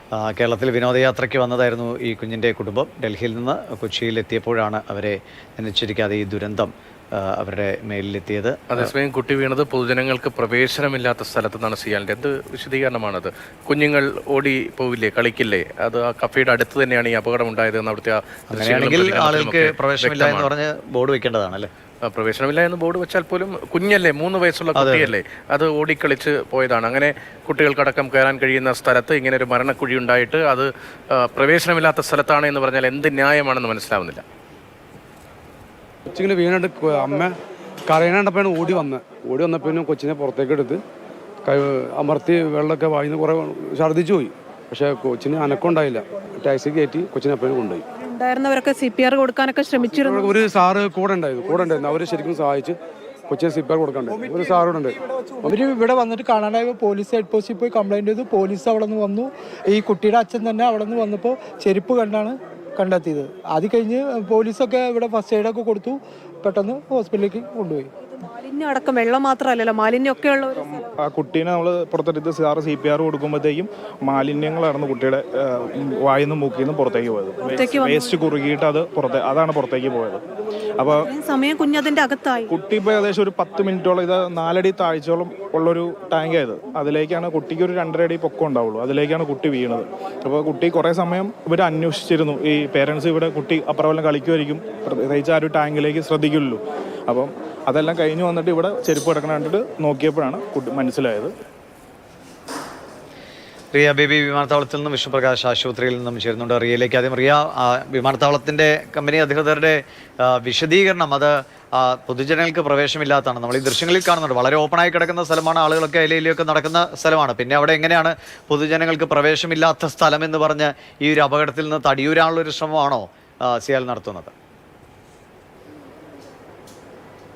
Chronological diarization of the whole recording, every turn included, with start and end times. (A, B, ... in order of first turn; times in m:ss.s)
0:00.2-0:08.9 A
0:08.7-0:20.5 B
0:18.5-0:21.7 A
0:22.0-0:34.2 B
0:24.7-0:25.1 A
0:36.1-0:40.8 C
0:41.4-0:47.8 C
0:48.0-0:50.4 D
0:50.0-0:52.8 C
0:53.3-0:55.6 C
0:54.1-0:54.6 E
0:55.3-1:07.9 E
1:08.2-1:10.8 D
1:11.0-1:20.2 F
1:17.4-1:18.3 D
1:21.0-1:22.5 D
1:22.5-1:41.3 F
1:43.7-2:04.3 A